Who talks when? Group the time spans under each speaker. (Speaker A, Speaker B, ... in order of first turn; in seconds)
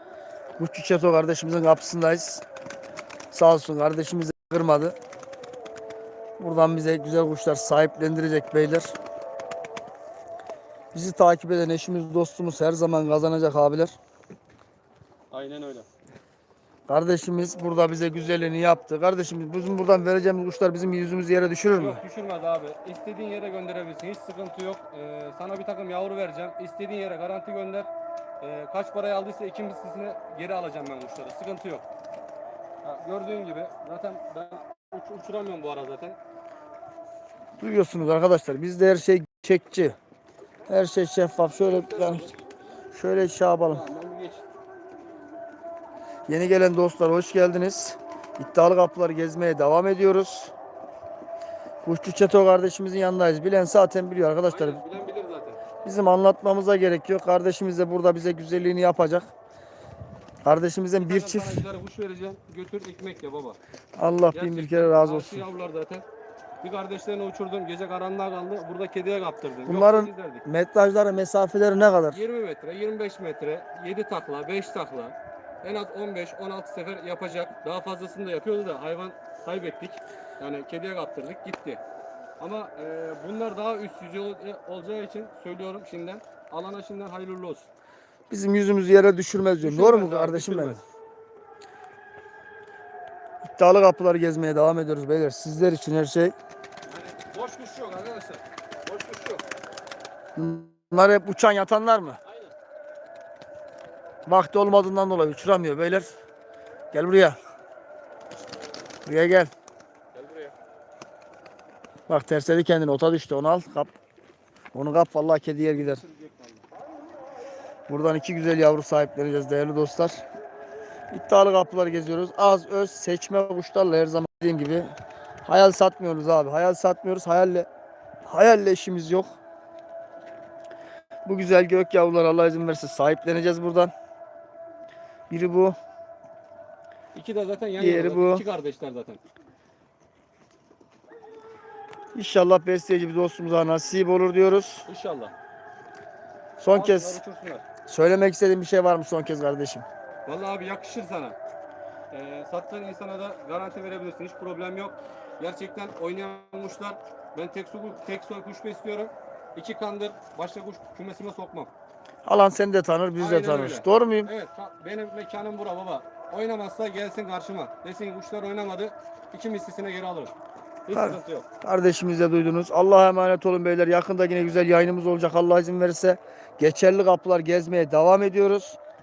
Speaker A: 0.6-2.4, 3.3-5.0, 6.4-8.9, 10.9-13.9, 16.9-22.0, 37.6-40.0, 40.7-42.3, 42.9-43.8, 46.3-50.5, 51.8-54.8, 55.8-59.3, 60.4-61.6, 64.0-65.4, 69.6-72.2, 88.3-90.8, 93.4-96.3, 100.3-102.2, 104.2-106.1, 106.9-107.4, 109.0-109.5, 112.1-113.9, 114.7-116.0, 117.9-120.2, 121.1-124.9, 125.4-127.7, 128.3-129.3, 131.2-133.9, 135.3-135.8, 137.8-138.4, 142.1-144.8, 146.6-147.2, 147.9-149.8, 162.2-164.3, 170.9-178.8
Speaker B: 15.3-15.9, 21.7-27.9, 28.4-31.8, 32.8-36.2, 41.6-42.4, 43.7-44.4, 54.4-55.6, 61.0-63.6, 64.3-66.0, 66.6-70.4, 72.1-81.8, 82.4-87.7, 89.6-90.8, 96.8-99.4, 102.2-102.5, 110.1-110.5, 115.8-116.6, 137.1-139.2, 144.8-145.3, 146.7-147.7, 150.2-151.4, 152.1-161.7, 163.2-170.3, 170.8-171.4